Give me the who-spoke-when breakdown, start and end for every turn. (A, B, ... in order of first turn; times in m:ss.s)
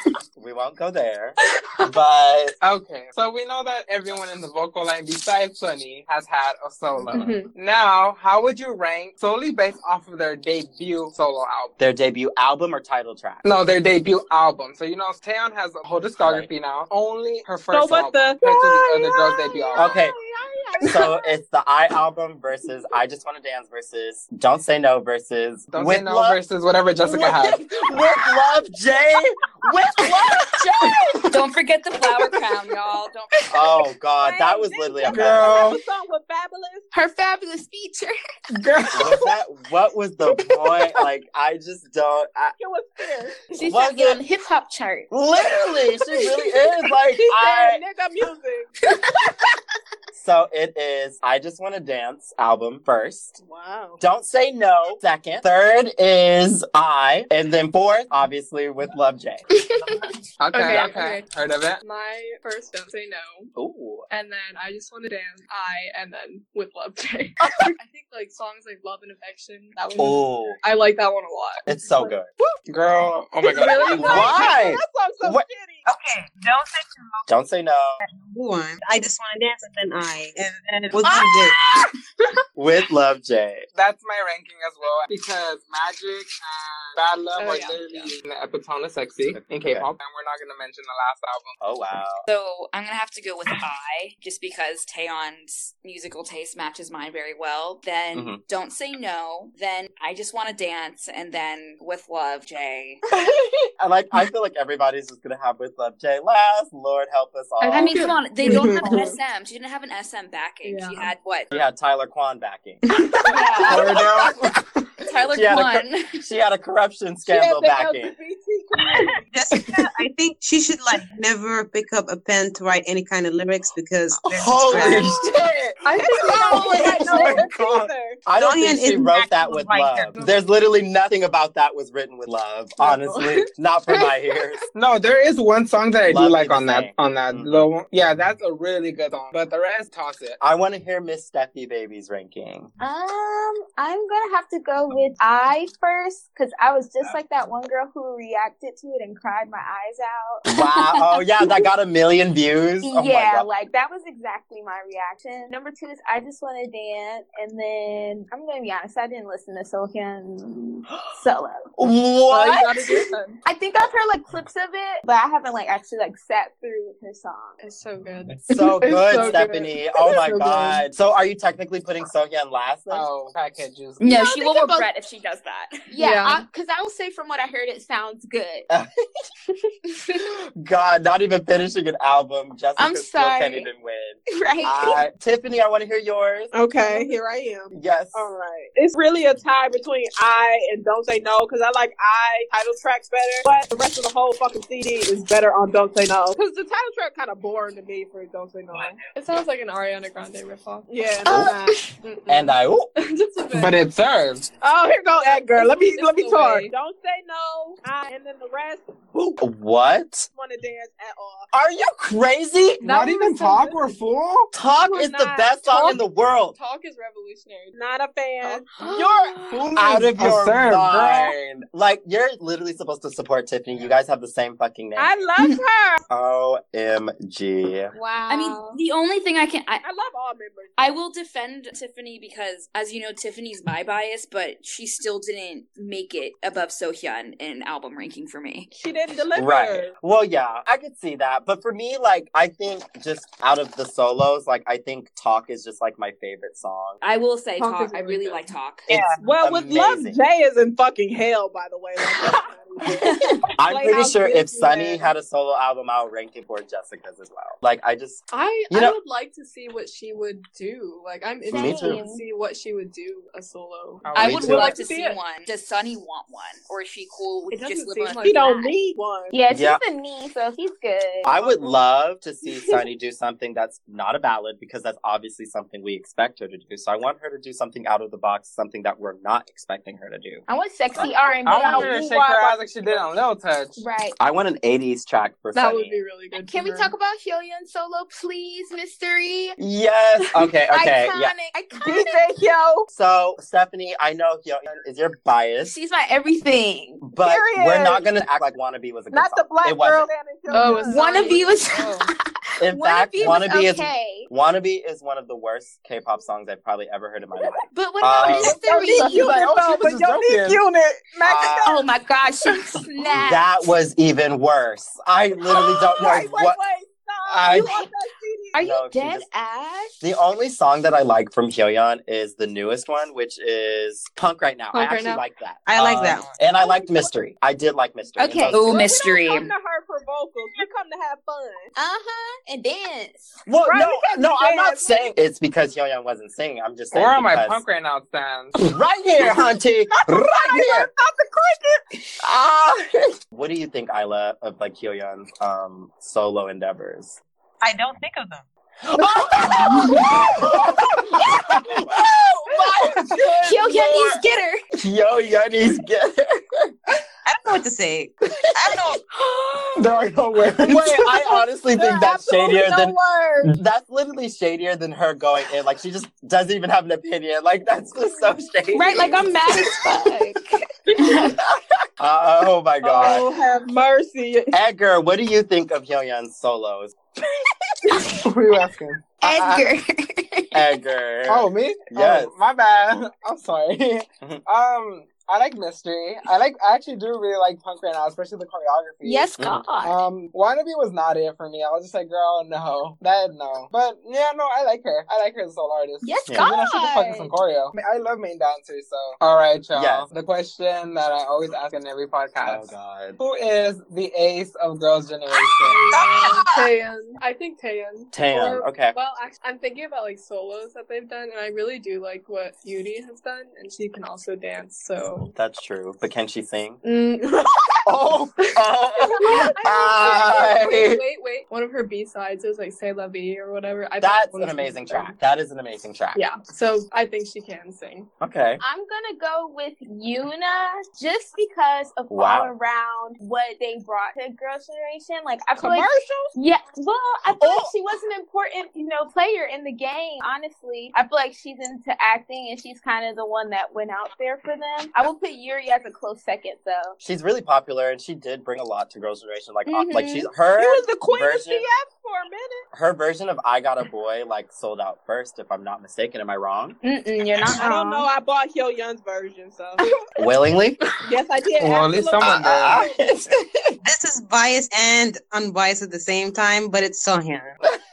0:00.4-0:02.6 A
0:02.6-0:11.7 B
0:07.1-0:07.5 C
0:11.8-0:13.4 A
0:13.4-0:19.9 B
0:16.2-0:16.5 A
0:17.7-0:21.1 D
0:19.7-0:20.1 A
0:20.8-0:26.4 A
0:25.7-0:27.6 B
0:27.0-0:31.0 A
0:30.8-0:31.3 B
0:31.2-0:33.4 E
0:33.5-0:35.6 A
0:34.2-0:36.9 D
0:35.1-0:35.8 B
0:36.9-0:38.1 F
0:38.5-0:39.2 B
0:38.9-0:42.5 A
0:42.6-0:43.4 D
0:43.5-0:45.1 F
0:43.6-0:44.2 A
0:45.1-0:47.8 A
0:47.2-0:48.7 D
0:50.1-0:53.4 A
0:53.4-0:54.0 D
0:54.0-0:59.4 A
1:00.4-1:01.8 B
1:00.5-1:01.3 C
1:00.6-1:00.9 F
1:01.8-1:03.5 C
1:03.5-1:04.0 A
1:04.1-1:11.7 C
1:07.4-1:07.7 A
1:10.0-1:10.6 A
1:11.6-1:12.3 A
1:12.6-1:14.3 B
1:13.4-1:15.8 D
1:13.5-1:14.6 C
1:13.9-1:15.4 A
1:15.9-1:17.2 G
1:17.3-1:18.0 A
1:18.0-1:21.6 G
1:22.6-1:23.6 A
1:23.7-1:31.6 B
1:27.4-1:28.1 C
1:29.3-1:29.9 A
1:31.6-1:32.3 A
1:32.3-1:43.0 E
1:38.1-1:38.4 A
1:43.8-1:48.0 A
1:47.6-1:49.1 C
1:47.7-1:51.5 E
1:50.6-1:51.1 C
1:51.5-1:52.8 A
1:53.2-1:54.3 E
1:53.6-1:55.0 B
1:53.7-1:54.5 A
1:55.0-1:56.2 E
1:55.3-1:58.1 A
1:57.2-1:59.2 D
1:58.9-2:05.1 G
2:04.3-2:14.6 A
2:05.8-2:07.4 C
2:05.9-2:08.2 D
2:08.4-2:10.1 G
2:14.7-2:20.4 B
2:16.0-2:17.7 A
2:20.4-2:22.7 A
2:22.8-2:30.5 F
2:30.4-2:33.5 A
2:32.8-2:41.7 F
2:41.8-2:42.9 A
2:42.4-2:43.3 D
2:42.5-2:43.0 C
2:43.4-2:47.6 F
2:47.6-2:50.8 C
2:48.5-2:53.1 A
2:52.9-2:54.0 B
2:54.0-2:55.9 E
2:54.0-2:54.9 F
2:55.9-2:58.7 F
2:56.0-2:56.4 C
3:00.2-3:06.5 A
3:02.8-3:03.7 F
3:04.4-3:05.0 F
3:06.5-3:19.0 D
3:07.7-3:08.3 A
3:19.1-3:20.9 C
3:20.9-3:21.9 D
3:21.2-3:21.6 A
3:22.1-3:23.8 C
3:22.3-3:22.9 A
3:23.5-3:24.5 B
3:24.6-3:29.4 D
3:25.2-3:26.7 C
3:29.4-3:30.3 A
3:30.3-3:31.5 D
3:31.5-3:32.9 A
3:32.8-3:33.6 C
3:32.8-3:34.5 B
3:33.6-3:33.9 D
3:34.5-3:36.5 A
3:34.8-3:35.8 D
3:35.7-3:36.0 C
3:36.5-3:37.7 C
3:37.7-3:39.4 D
3:38.8-3:39.4 F
3:38.9-3:41.3 B
3:39.7-3:45.2 A
3:45.0-3:46.0 D
3:46.1-3:47.9 A
3:47.9-3:48.8 F
3:48.3-3:49.8 E
3:49.8-3:50.8 D
3:50.8-3:58.7 E
3:58.7-3:59.9 D
3:59.4-4:07.0 A
4:07.0-4:09.2 E
4:07.6-4:08.4 D
4:08.9-4:09.2 G
4:09.2-4:15.1 D
4:09.4-4:10.2 A
4:13.0-4:13.4 E
4:13.6-4:19.0 A
4:18.3-4:25.2 C
4:21.5-4:22.0 A
4:21.5-4:22.2 F
4:24.0-4:24.7 B
4:24.1-4:28.7 E
4:24.2-4:24.7 A
4:27.5-4:28.6 C
4:28.2-4:29.3 D
4:29.3-4:31.4 F
4:29.5-4:29.8 A
4:31.2-4:41.1 A
4:40.5-4:42.2 F
4:41.2-4:43.2 D
4:41.4-4:43.8 B
4:43.8-4:44.2 F
4:44.2-4:46.0 A
4:45.5-4:46.9 C
4:46.4-4:49.6 F
4:49.6-4:51.3 A
4:50.7-4:52.2 F
4:51.7-4:52.9 D
4:52.9-4:55.7 A
4:55.6-4:57.0 F
4:57.0-5:00.1 A
4:57.2-4:58.0 D
4:59.1-5:01.4 D
5:00.5-5:02.0 C
5:00.6-5:02.0 F
5:02.6-5:08.6 A
5:02.6-5:04.3 F
5:07.7-5:09.4 F
5:08.3-5:11.9 D
5:08.8-5:10.6 B
5:11.2-5:11.7 A
5:11.6-5:13.6 F
5:13.2-5:16.6 A
5:15.5-5:18.5 D
5:17.4-5:17.6 B
5:17.5-5:17.8 F
5:18.5-5:19.9 F
5:18.6-5:19.2 A
5:20.0-5:28.8 A
5:24.7-5:25.2 C
5:25.7-5:26.3 G
5:28.2-5:28.6 F
5:28.5-5:29.5 E
5:28.7-5:31.7 D
5:31.7-5:33.4 F
5:33.4-5:37.6 A
5:33.6-5:35.1 D
5:36.9-5:38.7 B
5:38.6-5:40.9 A
5:39.2-5:41.8 D
5:42.2-5:47.2 A
5:47.6-5:48.4 G
5:48.9-5:54.2 A
5:53.4-5:54.6 F
5:54.8-5:56.7 A
5:57.2-5:59.0 G
5:59.1-5:59.9 F
5:59.8-6:00.9 B
6:00.6-6:09.3 A
6:01.7-6:03.5 D
6:08.7-6:11.3 F
6:12.0-6:13.2 A
6:12.8-6:14.6 D
6:14.5-6:16.9 A
6:17.9-6:18.1 F
6:18.2-6:19.0 B
6:19.2-6:20.6 F
6:19.2-6:19.7 A
6:20.5-6:22.3 A
6:21.3-6:46.0 B
6:29.0-6:30.0 F
6:29.4-6:29.6 A
6:36.0-6:37.4 F
6:39.8-6:40.1 A
6:42.4-6:43.2 A
6:45.6-6:55.3 C
6:48.1-6:49.0 A
6:55.4-6:56.8 A
6:56.9-6:57.5 C
6:57.8-7:01.0 A
6:59.1-7:05.1 C
7:04.0-7:06.2 A
7:06.1-7:08.1 C
7:08.2-7:08.6 A
7:08.6-7:27.0 F
7:12.1-7:12.5 A
7:15.6-7:16.3 D
7:17.4-7:17.7 A
7:27.0-7:31.6 A
7:29.6-7:30.3 F
7:30.5-7:32.6 D
7:32.7-7:36.8 A
7:36.8-7:38.1 F
7:37.5-7:39.8 D
7:40.2-7:40.8 A
7:41.0-7:43.0 D
7:41.6-7:42.8 B
7:42.2-7:43.3 A
7:43.8-7:47.6 G